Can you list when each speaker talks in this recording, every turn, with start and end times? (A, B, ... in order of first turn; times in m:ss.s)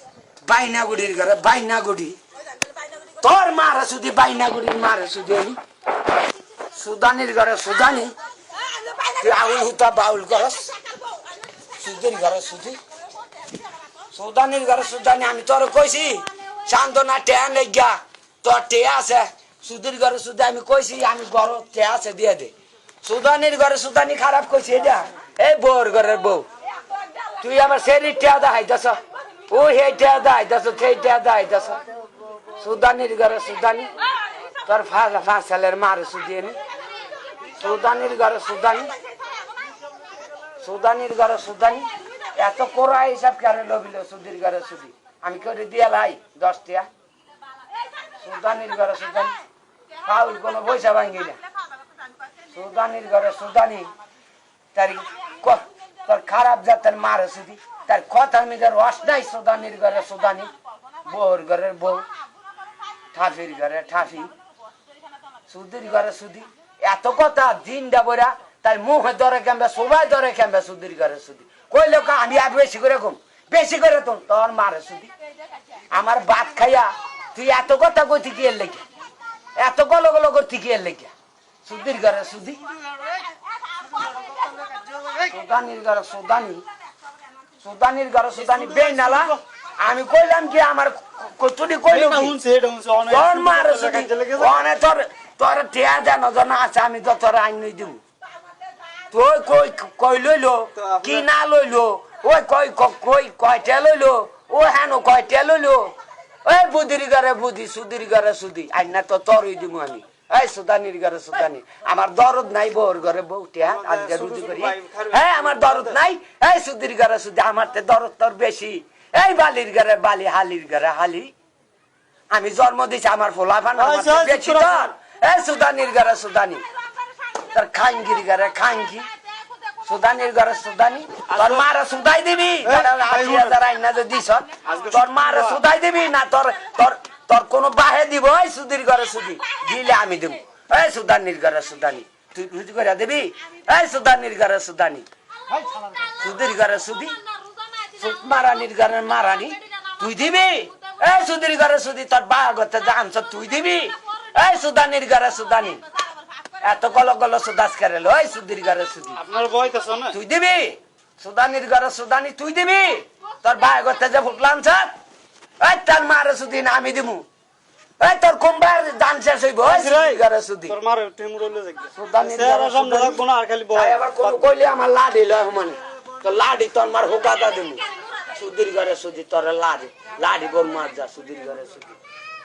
0:00.4-0:02.2 A
0:03.2-0:05.6 A
0:06.7-0:08.2 A
0:09.0-0:10.8 A
0:11.7-0:12.8 A
0:14.1-0:26.5 A
0:27.4-0:31.8 A
0:32.6-0:33.9 A
0:34.6-0:36.6 A
0:37.6-0:38.9 A
0:40.6-0:46.9 A
0:48.2-0:49.4 A
0:50.0-0:51.4 A
0:52.5-0:53.9 A
0:54.7-1:00.5 A
1:01.0-1:02.1 A
1:03.1-1:04.3 A
1:05.5-1:15.1 A
1:15.9-1:18.8 A
1:19.6-1:21.1 A
1:21.7-1:22.6 A
1:24.5-1:25.2 B
1:25.3-1:26.6 A
1:27.6-1:32.4 A
1:28.4-1:29.4 B
1:31.9-1:34.6 B
1:33.1-1:38.0 A
1:39.1-1:45.9 A
1:40.8-1:41.3 B
1:46.4-2:01.3 A
1:53.6-1:56.0 B
2:02.3-2:06.6 A
2:03.8-2:04.9 B
2:07.5-2:09.1 A
2:09.8-2:25.1 A
2:11.3-2:11.7 B
2:12.6-2:13.6 B
2:14.6-2:15.6 B
2:25.5-2:25.8 B
2:26.0-2:27.2 A
2:27.9-2:35.8 A
2:36.6-2:39.2 A
2:39.2-2:40.2 B
2:40.1-2:45.0 A
2:45.6-2:47.3 A
2:48.0-2:50.8 A
2:49.6-2:54.4 B
2:52.0-2:53.2 A
2:53.7-3:02.0 A